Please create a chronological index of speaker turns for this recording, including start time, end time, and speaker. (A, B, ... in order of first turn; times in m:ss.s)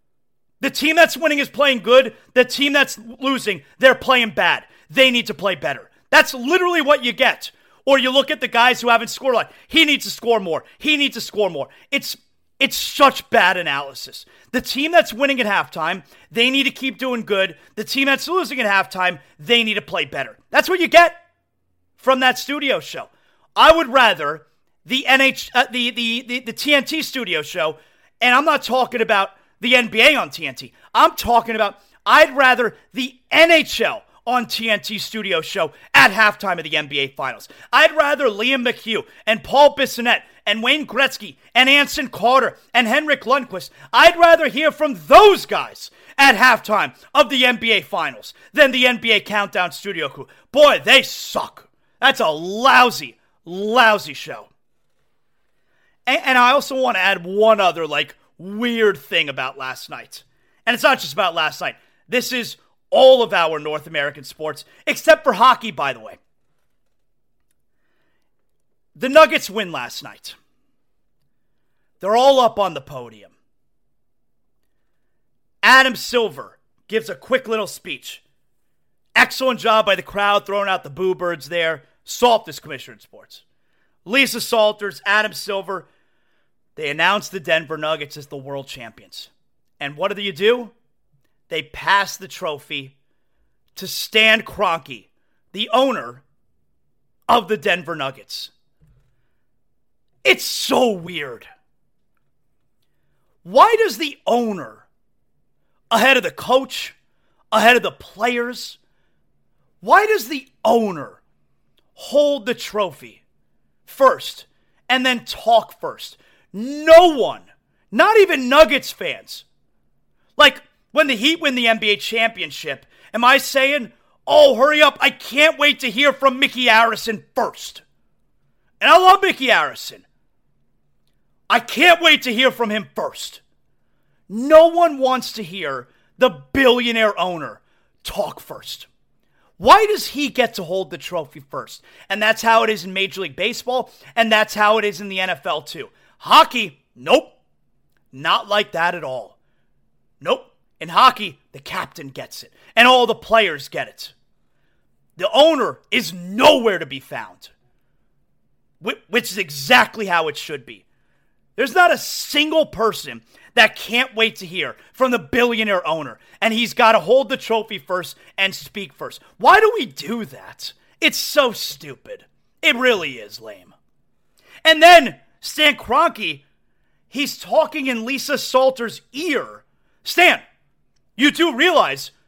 0:00.6-0:21.2 A
0:22.0-0:54.5 A
0:56.1-1:06.2 A
1:09.0-1:10.4 A
1:12.0-1:13.3 A
1:15.6-1:18.2 A
1:19.2-1:23.4 A
1:24.0-1:25.9 A
1:26.8-1:30.7 A
1:31.5-1:32.9 A
1:33.8-1:36.2 A
1:37.3-1:38.5 A
1:40.2-1:41.5 A
1:43.4-1:44.8 A
1:45.9-1:47.0 A
1:47.5-1:48.8 A
1:49.8-1:51.2 A
1:52.0-1:53.2 A
1:53.9-1:59.4 A
2:00.4-2:07.8 A
2:08.8-2:10.0 A
2:11.5-2:13.4 A
2:14.3-2:18.9 A
2:19.6-2:27.4 A
2:28.1-2:29.4 A
2:30.2-2:34.1 A
2:35.2-2:37.5 A
2:38.8-2:40.8 A
2:41.6-2:53.7 A
2:54.6-2:56.4 A
2:57.1-3:00.4 A
3:01.2-3:02.1 A